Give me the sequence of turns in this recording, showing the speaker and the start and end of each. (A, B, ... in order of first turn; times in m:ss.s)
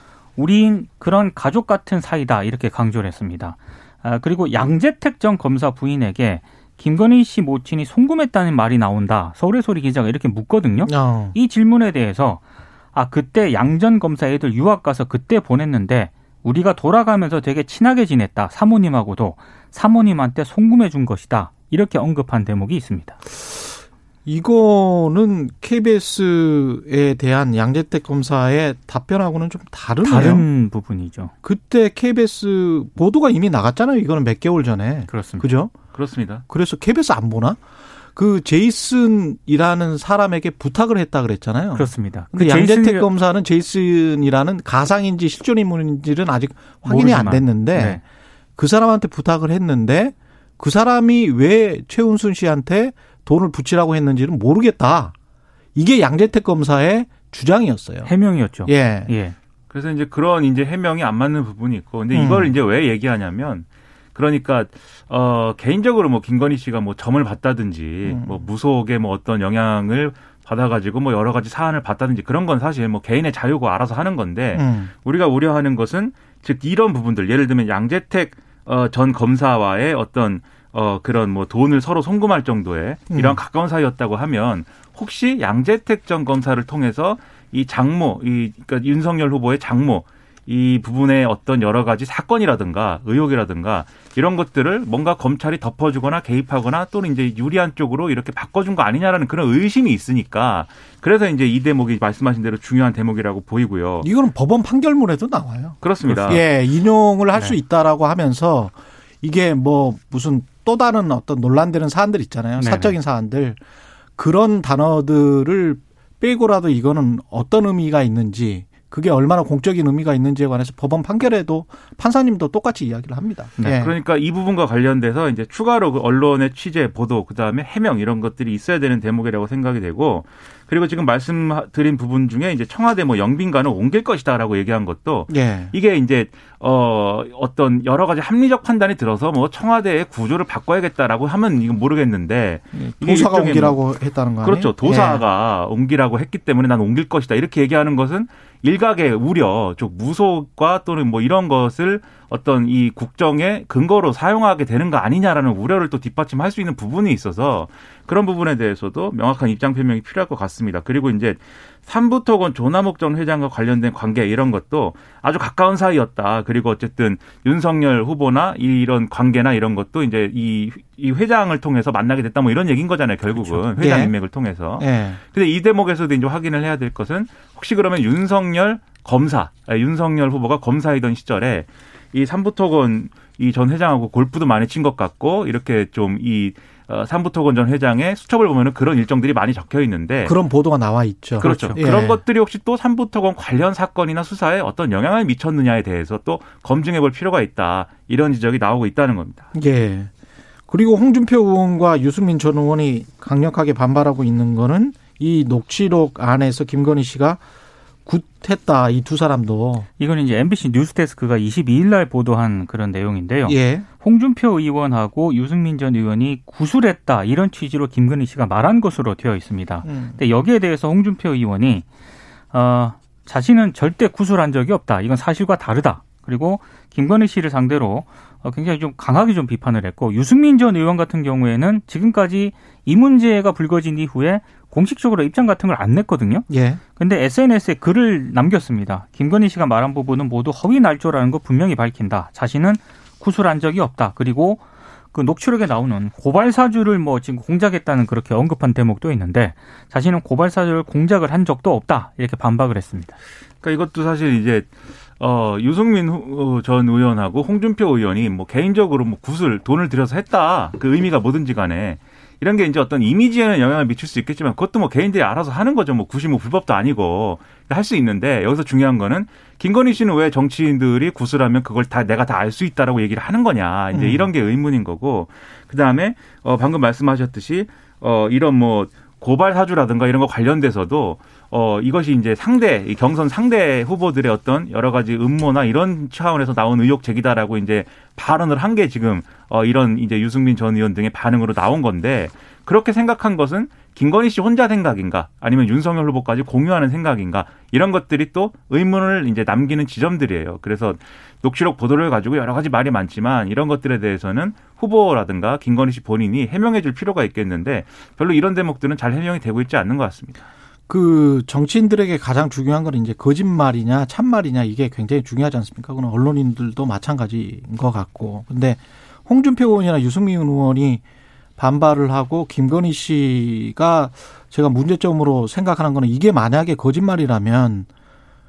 0:00.4-0:12.4 A
0:10.9-0:11.4 B
0:12.9-0:23.2 A
0:24.3-0:30.5 B
0:30.0-0:31.3 A
0:31.4-0:35.7 B
0:35.1-0:35.5 A
0:35.9-0:36.4 C
0:36.5-0:37.6 B
0:38.2-0:48.0 B
0:41.8-0:43.1 A
0:46.8-0:48.0 A
0:48.6-0:55.1 B
0:55.8-0:58.1 B
0:58.1-0:59.4 A
0:58.6-0:59.1 B
0:59.7-1:44.1 C
1:02.1-1:02.5 B
1:08.1-1:08.5 B
1:14.6-1:14.9 B
1:23.1-1:23.4 B
1:44.0-1:53.6 B
1:45.8-1:46.4 C
1:52.6-1:52.9 A
1:54.2-2:03.9 B
2:03.7-2:23.8 C
2:15.3-2:15.7 B
2:22.8-2:25.2 B
2:24.4-3:10.4 C
2:53.6-2:54.2 B
2:54.8-2:55.2 B
3:10.3-3:12.2 B
3:11.4-3:19.5 C
3:11.4-3:11.8 A
3:19.5-3:20.1 B
3:20.7-3:27.4 B
3:28.1-3:29.9 B
3:30.0-3:41.9 A
3:33.5-3:33.9 B
3:39.8-3:40.2 B
3:42.5-3:56.5 A
3:56.5-3:56.8 B
3:57.0-4:04.6 A
4:05.1-4:13.2 A
4:13.6-5:10.4 C
4:33.9-4:34.3 B
5:10.9-5:21.0 B
5:21.6-5:27.9 B